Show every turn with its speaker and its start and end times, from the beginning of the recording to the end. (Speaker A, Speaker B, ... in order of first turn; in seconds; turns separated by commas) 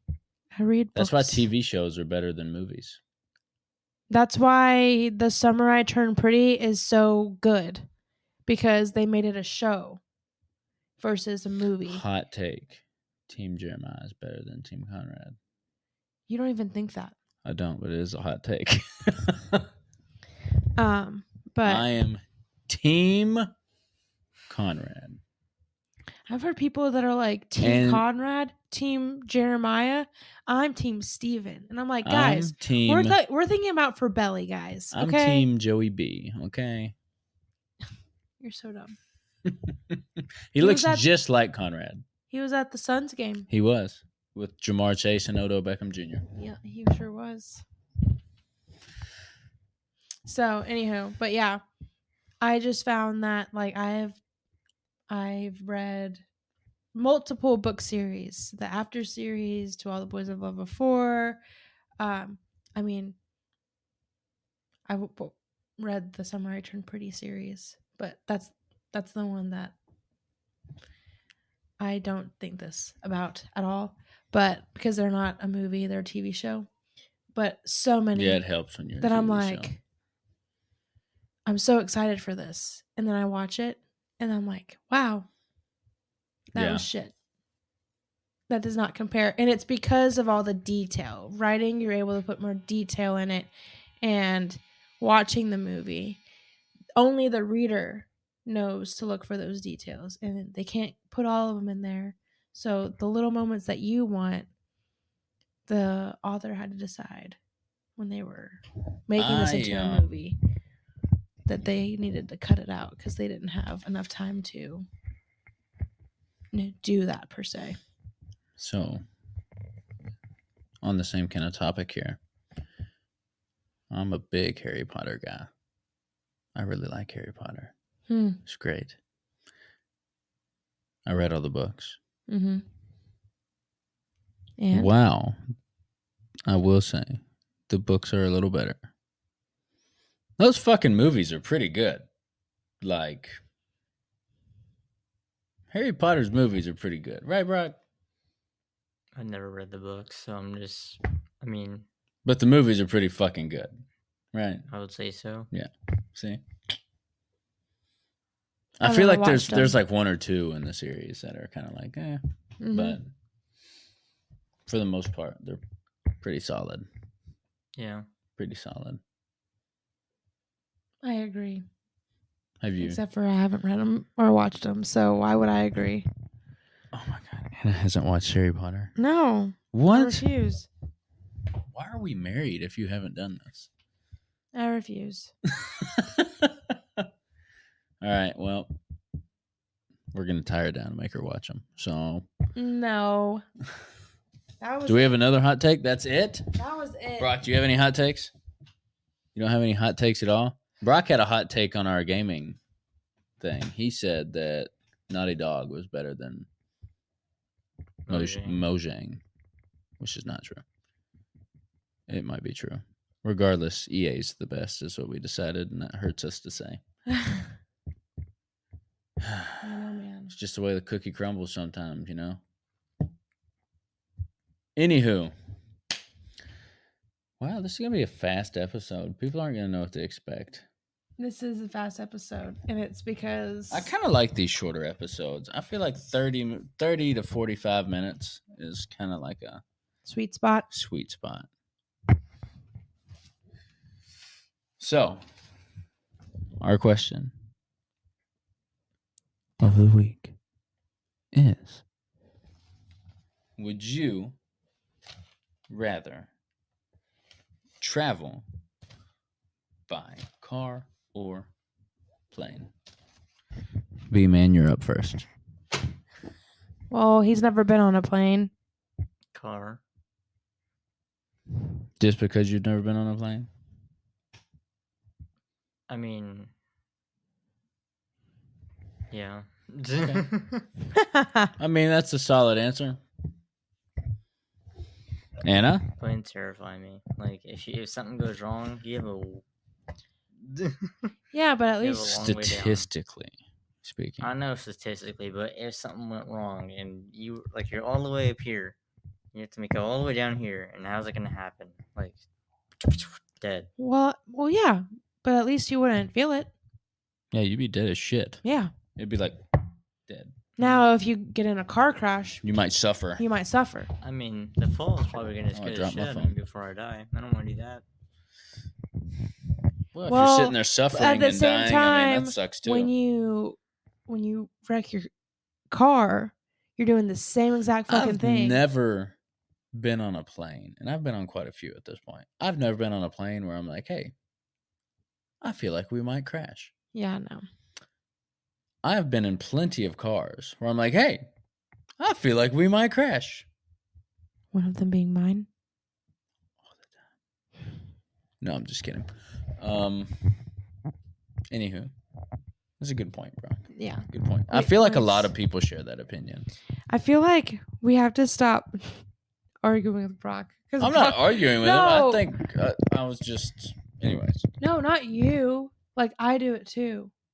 Speaker A: 0.5-1.5, Speaker B: 0.9-3.0, Speaker A: 4.1-7.8, Speaker A: 8.4-10.0, Speaker A: 11.0-12.0, Speaker B: 11.8-15.4, Speaker A: 16.3-17.1, Speaker B: 17.4-19.7, Speaker A: 20.8-21.8, Speaker B: 21.6-23.5, Speaker B: 24.5-25.2, Speaker A: 26.3-35.5, Speaker B: 27.6-28.0, Speaker B: 32.0-33.2, Speaker B: 34.9-36.9, Speaker A: 38.4-38.9, Speaker B: 39.5-42.0, Speaker A: 40.6-41.1, Speaker A: 42.3-43.5, Speaker B: 43.5-46.2, Speaker A: 46.3-47.6, Speaker A: 50.2-51.6, Speaker A: 52.4-54.2, Speaker A: 55.1-56.2, Speaker A: 56.9-61.4, Speaker A: 62.0-63.1, Speaker A: 64.9-69.7, Speaker A: 71.8-76.7, Speaker A: 77.3-78.4, Speaker B: 78.1-79.7, Speaker A: 79.0-79.8, Speaker A: 81.5-85.3, Speaker A: 86.5-87.1, Speaker B: 86.5-86.8, Speaker A: 88.5-93.5, Speaker A: 94.0-96.2, Speaker A: 97.0-104.5, Speaker A: 105.7-107.4, Speaker A: 108.0-110.4, Speaker B: 109.2-110.0, Speaker A: 111.5-114.8, Speaker A: 116.5-117.8, Speaker B: 118.6-119.0, Speaker B: 120.8-122.2, Speaker B: 123.9-125.5, Speaker B: 126.5-127.7, Speaker A: 128.1-128.4, Speaker B: 128.4-129.0, Speaker B: 131.1-132.0, Speaker A: 132.3-132.6, Speaker A: 134.6-134.9, Speaker B: 134.7-135.4, Speaker B: 136.4-138.8, Speaker B: 140.4-142.1, Speaker B: 142.8-143.4, Speaker B: 145.7-147.8, Speaker C: 149.1-151.8, Speaker B: 152.2-153.8, Speaker B: 154.3-154.6, Speaker C: 154.7-155.5, Speaker B: 155.5-156.4, Speaker B: 158.8-162.2, Speaker A: 158.8-159.8, Speaker A: 162.6-163.0, Speaker B: 162.7-163.1, Speaker B: 164.7-165.6, Speaker B: 166.2-166.9, Speaker C: 167.8-168.1, Speaker B: 168.4-169.0, Speaker A: 171.0-171.7, Speaker B: 172.6-173.0, Speaker A: 172.8-176.1, Speaker B: 176.9-178.9, Speaker A: 179.0-180.7, Speaker B: 179.7-180.3, Speaker B: 181.7-183.7, Speaker A: 184.5-185.3, Speaker B: 185.5-187.1, Speaker B: 188.0-188.7, Speaker B: 190.1-192.3, Speaker A: 192.5-193.4, Speaker A: 194.6-195.1, Speaker B: 194.8-196.5, Speaker A: 196.5-197.3, Speaker B: 197.2-198.3, Speaker B: 199.3-202.6, Speaker B: 203.4-206.5, Speaker C: 208.1-208.6, Speaker B: 208.1-209.2, Speaker B: 210.0-210.6, Speaker B: 212.1-216.8, Speaker A: 217.2-217.4, Speaker B: 219.2-219.7, Speaker A: 219.6-220.3, Speaker B: 220.3-222.4, Speaker B: 224.8-225.3, Speaker B: 227.4-230.7, Speaker A: 231.2-233.9, Speaker B: 233.7-239.6, Speaker A: 240.0-240.7, Speaker B: 240.7-241.5, Speaker B: 244.8-245.2, Speaker B: 246.6-247.3, Speaker B: 249.6-250.3, Speaker B: 251.3-251.8, Speaker B: 253.6-254.3, Speaker B: 255.7-256.3, Speaker B: 257.8-258.4, Speaker B: 259.9-261.5, Speaker B: 262.3-262.7, Speaker B: 264.1-265.3, Speaker A: 266.9-268.5, Speaker C: 269.3-269.8, Speaker B: 272.0-273.5, Speaker C: 275.9-276.5, Speaker C: 279.1-280.6, Speaker A: 281.0-281.5, Speaker B: 281.6-283.0, Speaker B: 285.4-285.9, Speaker C: 286.0-289.4, Speaker C: 290.4-291.1, Speaker A: 291.3-292.2, Speaker C: 291.8-292.9, Speaker B: 292.1-294.3, Speaker C: 294.2-298.8, Speaker C: 299.3-302.2, Speaker C: 302.8-303.7, Speaker A: 303.8-306.5, Speaker B: 307.3-308.4, Speaker A: 308.4-308.7, Speaker B: 308.9-309.4, Speaker B: 310.1-310.4, Speaker A: 310.6-312.4, Speaker C: 310.6-310.8, Speaker B: 312.4-313.2, Speaker A: 313.2-313.9, Speaker C: 314.0-317.8, Speaker B: 315.5-316.3, Speaker B: 319.9-322.9, Speaker A: 320.1-325.1, Speaker A: 325.7-328.6, Speaker B: 327.9-329.1, Speaker B: 329.7-334.1, Speaker B: 335.4-336.7, Speaker A: 336.9-337.4, Speaker B: 338.8-341.3, Speaker B: 342.0-343.5, Speaker A: 344.5-345.5, Speaker B: 346.6-347.0, Speaker B: 348.4-350.5, Speaker B: 351.5-351.9, Speaker B: 352.8-356.5, Speaker A: 353.7-355.3, Speaker A: 356.9-359.0, Speaker A: 359.6-362.3, Speaker B: 360.8-364.5, Speaker A: 364.6-367.1